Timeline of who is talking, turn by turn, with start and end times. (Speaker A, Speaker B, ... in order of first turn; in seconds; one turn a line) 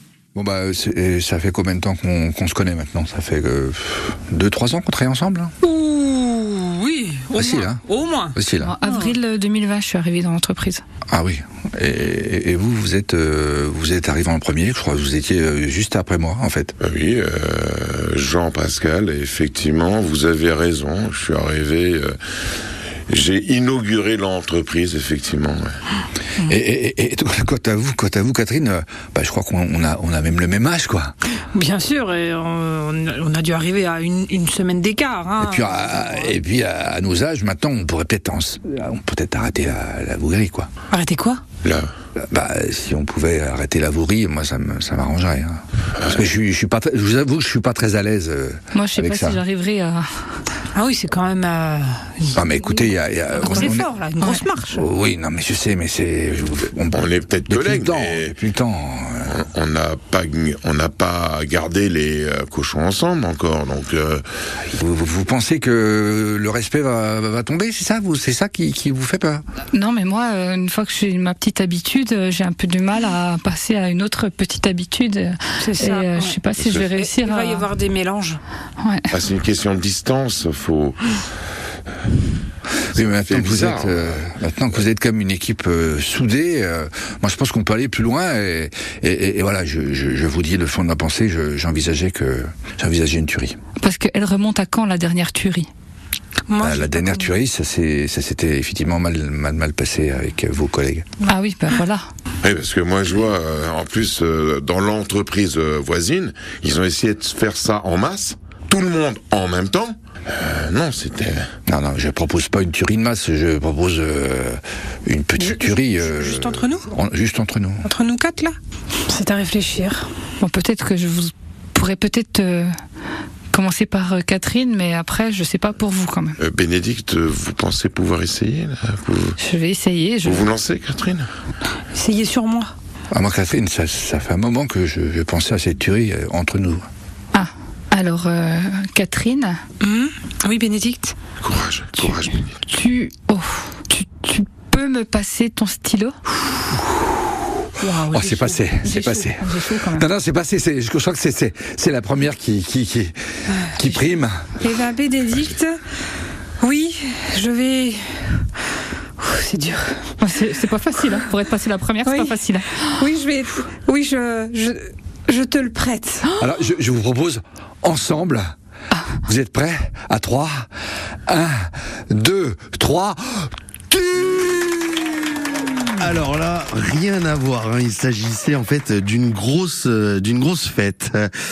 Speaker A: 0.3-5.5
Speaker B: 5.6-9.2
Speaker A: 7.3-7.8
Speaker A: 8.3-8.7
Speaker C: 8.6-10.8
Speaker A: 11.1-16.8
Speaker D: 16.8-22.2
Speaker D: 23.1-25.7
Speaker A: 26.4-31.1
Speaker B: 31.5-36.3
Speaker A: 35.4-40.7
Speaker B: 40.9-41.4
Speaker D: 41.6-41.9
Speaker A: 42.2-49.4
Speaker C: 48.8-50.3
Speaker B: 50.7-54.9
Speaker A: 52.3-53.9
Speaker A: 54.7-59.3
Speaker D: 56.9-58.4
Speaker D: 59.3-64.2
Speaker A: 64.7-69.4
Speaker C: 69.7-77.7
Speaker B: 75.6-76.4
Speaker D: 76.5-76.9
Speaker B: 76.9-78.4
Speaker C: 78.8-79.1
Speaker D: 79.1-81.0
Speaker D: 82.9-84.2
Speaker A: 82.9-93.6
Speaker C: 93.8-95.7
Speaker B: 96.5-97.4
Speaker A: 96.6-101.1
Speaker C: 101.3-102.0
Speaker D: 102.4-111.4
Speaker A: 111.7-117.9
Speaker B: 115.4-116.9
Speaker B: 117.8-120.1
Speaker C: 120.4-122.7
Speaker C: 123.5-126.4
Speaker D: 126.4-129.4
Speaker C: 129.4-130.5
Speaker D: 130.2-131.3
Speaker B: 131.9-132.7
Speaker A: 133.1-136.8
Speaker C: 137.3-139.6
Speaker B: 139.8-141.2
Speaker D: 141.4-142.5
Speaker C: 142.0-146.2
Speaker B: 147.8-148.7
Speaker A: 148.1-154.5
Speaker C: 148.8-150.1
Speaker B: 154.6-155.8
Speaker B: 156.6-158.5
Speaker B: 159.2-160.1
Speaker C: 160.2-163.0
Speaker B: 162.1-166.3
Speaker A: 166.4-168.5
Speaker A: 169.2-170.7
Speaker A: 171.3-175.7
Speaker E: 176.0-181.3